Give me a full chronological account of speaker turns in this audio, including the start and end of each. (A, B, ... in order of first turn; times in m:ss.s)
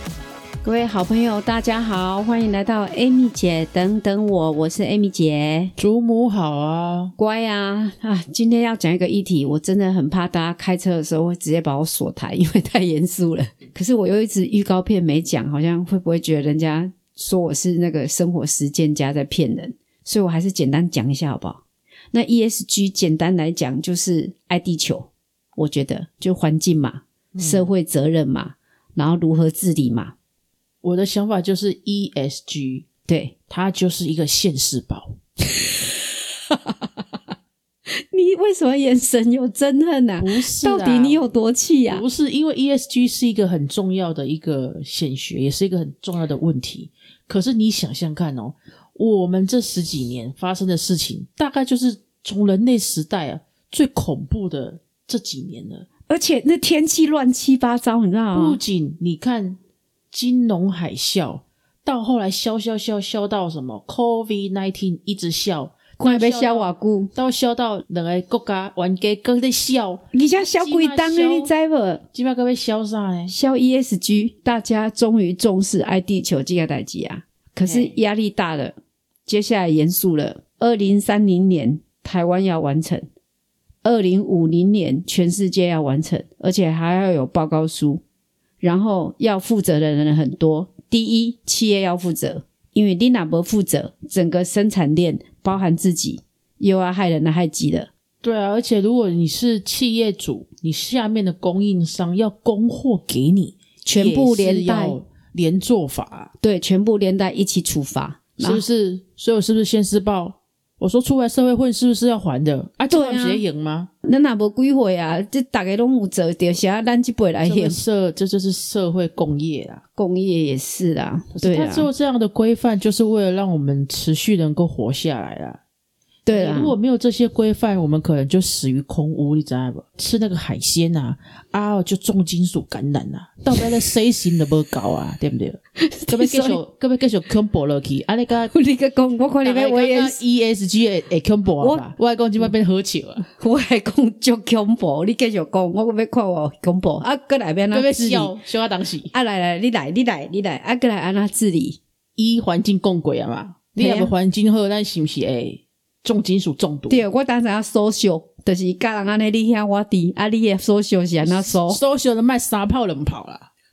0:00.6-0:05.7 A
0:05.8-0:07.1 B
0:07.2-0:30.1 A
0:27.3-0:27.7 B
0:30.8-0:32.9 B
0:33.1-0:33.3 A
0:33.5-0:35.1 B
0:35.5-0:36.0 A
0:38.1-0:42.0 A
0:40.2-0:41.2 B
0:41.9-0:55.9 B
0:56.1-0:58.6 A
0:58.3-0:59.6 B
1:00.1-1:11.5 B
1:06.0-1:07.1 A
1:10.1-1:12.0 A
1:12.1-1:13.3 B
1:13.3-1:23.0 A
1:17.6-1:18.0 B
1:23.8-1:28.0 A
1:28.6-1:37.9 A
1:38.2-1:46.3 B
1:43.8-1:45.0 A
1:46.4-1:48.6 A
1:48.4-1:53.9 B
1:52.9-1:53.4 A
1:54.0-1:57.8 A
1:57.4-1:59.8 B
2:00.0-2:01.9 A
2:01.3-2:05.6 B
2:06.2-2:06.7 A
2:06.3-2:18.5 B
2:15.8-2:16.6 A
2:18.5-2:20.2 A
2:19.4-2:23.3 B
2:23.4-2:28.3 A
2:27.7-2:29.1 B
2:29.1-2:31.8 A
2:32.2-2:37.0 B
2:33.8-2:34.1 A
2:36.9-2:41.8 A
2:41.2-2:43.5 B